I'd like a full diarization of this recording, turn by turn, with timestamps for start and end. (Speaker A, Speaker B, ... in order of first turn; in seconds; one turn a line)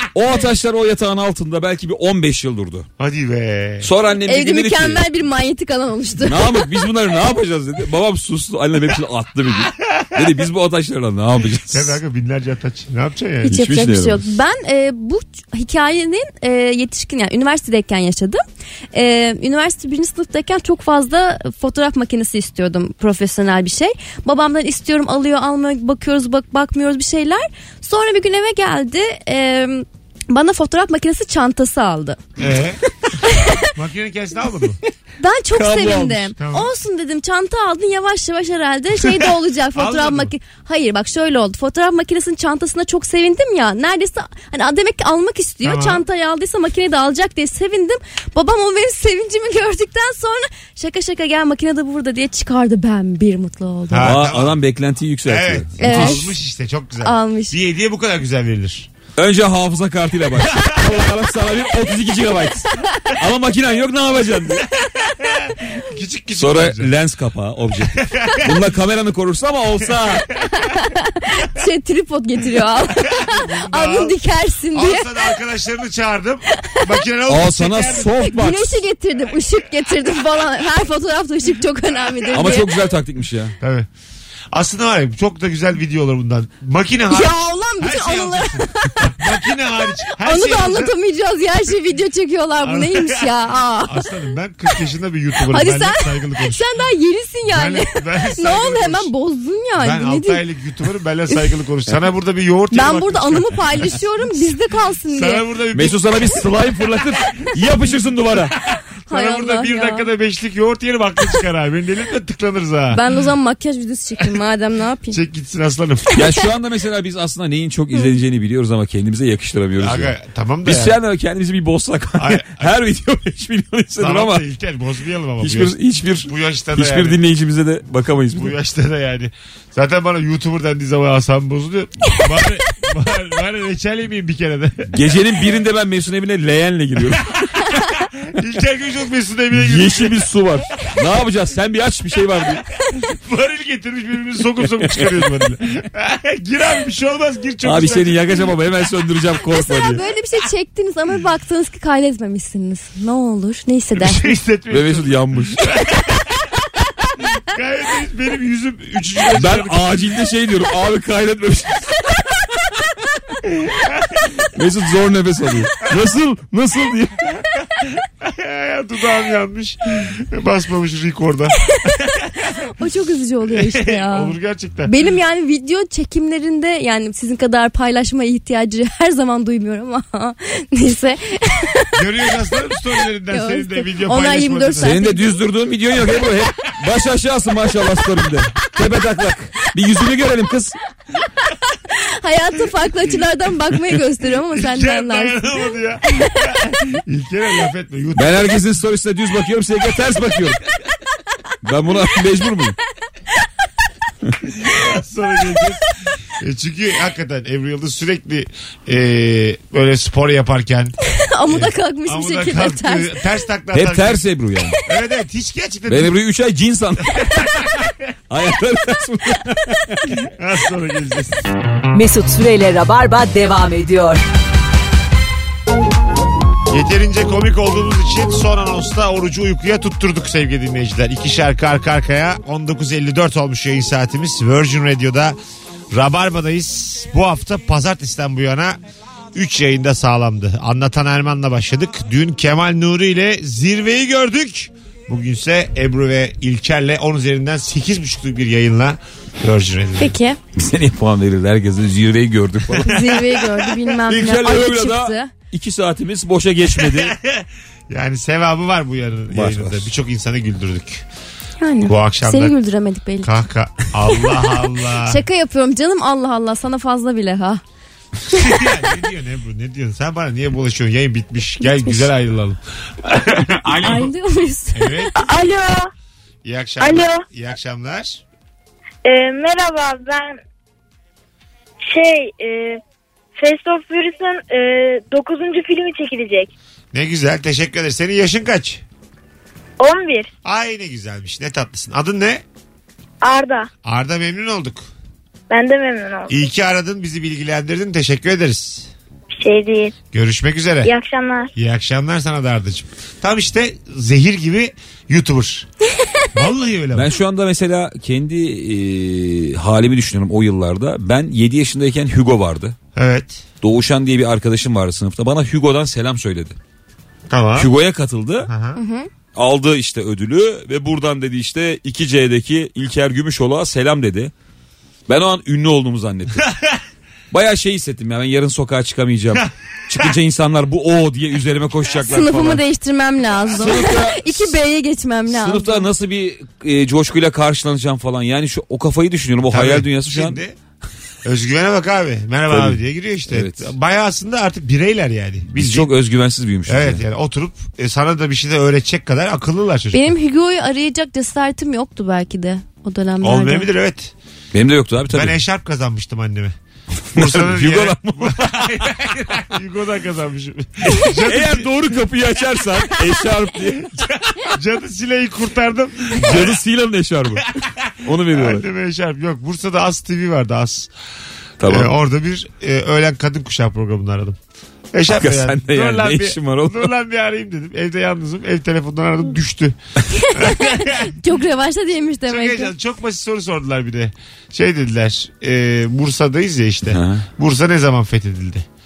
Speaker A: 0.1-2.9
Speaker B: 3.0-3.9
Speaker A: 3.8-5.0
Speaker C: 4.2-6.7
Speaker A: 6.2-12.0
Speaker B: 11.7-13.5
Speaker C: 13.4-18.4
Speaker A: 13.5-14.3
Speaker C: 18.9-32.2
Speaker B: 32.4-32.8
Speaker C: 33.3-33.7
Speaker B: 33.8-34.8
Speaker C: 35.2-54.2
Speaker A: 35.5-36.3
Speaker B: 36.4-36.7
Speaker B: 39.8-40.3
Speaker B: 45.6-46.0
Speaker B: 53.9-54.6
Speaker A: 54.0-56.2
Speaker B: 55.3-58.9
Speaker C: 55.8-56.4
Speaker C: 57.0-57.6
Speaker A: 59.2-64.7
Speaker B: 60.5-60.8
Speaker B: 65.1-66.9
Speaker A: 66.4-70.3
Speaker B: 68.0-68.6
Speaker C: 70.6-75.3
Speaker B: 73.2-74.2
Speaker B: 74.7-78.1
Speaker C: 76.5-76.9
Speaker A: 77.3-78.8
Speaker C: 78.2-82.7
Speaker A: 82.3-83.6
Speaker B: 83.6-83.9
Speaker B: 84.5-90.9
Speaker C: 87.1-89.4
Speaker C: 90.1-94.1
Speaker B: 92.6-93.3
Speaker B: 93.9-96.7
Speaker C: 95.5-100.4
Speaker B: 97.5-99.1
Speaker B: 99.8-103.9
Speaker C: 102.7-105.4
Speaker B: 105.1-106.1
Speaker A: 105.7-108.5
Speaker B: 108.7-113.0
Speaker C: 109.1-110.1
Speaker C: 112.9-115.2
Speaker B: 115.1-116.3
Speaker A: 116.2-120.1
Speaker B: 119.8-121.0
Speaker A: 120.7-124.4
Speaker B: 122.2-122.7
Speaker B: 124.0-125.7
Speaker A: 125.4-128.6
Speaker B: 126.2-127.2
Speaker B: 128.3-134.9
Speaker A: 134.9-137.4
Speaker B: 138.2-140.2
Speaker A: 139.5-142.6
Speaker B: 143.0-148.4
Speaker A: 147.6-150.0
Speaker C: 149.6-154.3
Speaker B: 154.0-156.2
Speaker A: 154.7-155.8
Speaker B: 157.4-160.0
Speaker A: 159.3-162.0
Speaker B: 163.5-164.2
Speaker A: 164.5-167.2
Speaker B: 167.8-172.7
Speaker C: 172.6-174.3
Speaker B: 173.5-174.9
Speaker C: 174.9-182.0
Speaker B: 181.9-184.9
Speaker C: 183.3-185.2
Speaker A: 184.8-190.8
Speaker C: 192.0-195.4
Speaker B: 194.5-198.5
Speaker A: 198.2-200.6
Speaker A: 201.6-202.8
Speaker B: 204.6-205.9
Speaker B: 206.4-210.9
Speaker C: 211.1-213.2
Speaker B: 211.5-214.2
Speaker A: 213.7-214.8
Speaker B: 214.8-216.1
Speaker A: 215.9-217.5
Speaker B: 217.2-217.9
Speaker A: 218.3-220.1
Speaker B: 220.2-221.5
Speaker D: 221.9-224.2
Speaker B: 226.7-235.4
Speaker B: 235.9-238.8
Speaker B: 239.3-250.2
Speaker C: 250.0-250.4
Speaker A: 250.6-253.0
Speaker B: 252.7-253.4
Speaker C: 252.8-255.3
Speaker A: 254.1-257.1
Speaker B: 256.8-261.1
Speaker A: 259.3-259.9
Speaker C: 261.6-263.3
Speaker B: 261.9-262.5
Speaker B: 263.2-265.2
Speaker C: 265.0-267.6
Speaker B: 268.3-274.1
Speaker C: 271.6-272.1
Speaker C: 273.8-275.1
Speaker B: 274.8-275.1
Speaker E: 275.2-275.9
Speaker B: 276.4-278.2
Speaker E: 276.8-277.2
Speaker E: 279.1-280.4
Speaker E: 281.9-282.8
Speaker E: 283.4-286.5
Speaker B: 286.9-288.8
Speaker E: 289.8-290.3
Speaker B: 290.4-292.4
Speaker E: 293.2-293.7
Speaker B: 293.9-294.9
Speaker E: 295.5-296.3
Speaker B: 296.3-298.9
Speaker E: 299.4-299.9
Speaker B: 300.1-300.9
Speaker E: 300.8-301.5
Speaker B: 301.6-305.7
Speaker B: 306.3-307.1
Speaker A: 306.9-312.8
Speaker B: 312.9-313.4
Speaker A: 313.6-316.6
Speaker B: 317.3-317.7
Speaker A: 317.6-318.5
Speaker B: 318.4-318.8
Speaker C: 318.8-319.1
Speaker A: 319.3-324.3
Speaker A: 325.1-326.5
Speaker B: 326.4-326.8
Speaker A: 327.3-332.6
Speaker C: 332.0-335.9
Speaker A: 333.5-334.5
Speaker A: 335.3-340.4
Speaker B: 339.5-340.6
Speaker B: 341.2-345.9
Speaker A: 342.5-343.7
Speaker A: 345.6-347.0
Speaker B: 346.7-350.1
Speaker C: 349.9-353.7
Speaker B: 353.2-354.1
Speaker A: 354.5-355.4
Speaker B: 355.1-356.6
Speaker A: 357.1-358.9
Speaker B: 357.1-362.0
Speaker A: 360.9-364.1
Speaker B: 363.9-366.6
Speaker A: 366.2-367.5
Speaker A: 368.0-368.7
Speaker B: 368.3-370.9
Speaker A: 371.6-371.9
Speaker B: 371.6-374.4
Speaker B: 374.9-379.8
Speaker A: 375.1-376.9
Speaker C: 380.2-382.7
Speaker B: 380.3-381.2
Speaker B: 382.3-388.7
Speaker A: 386.9-387.3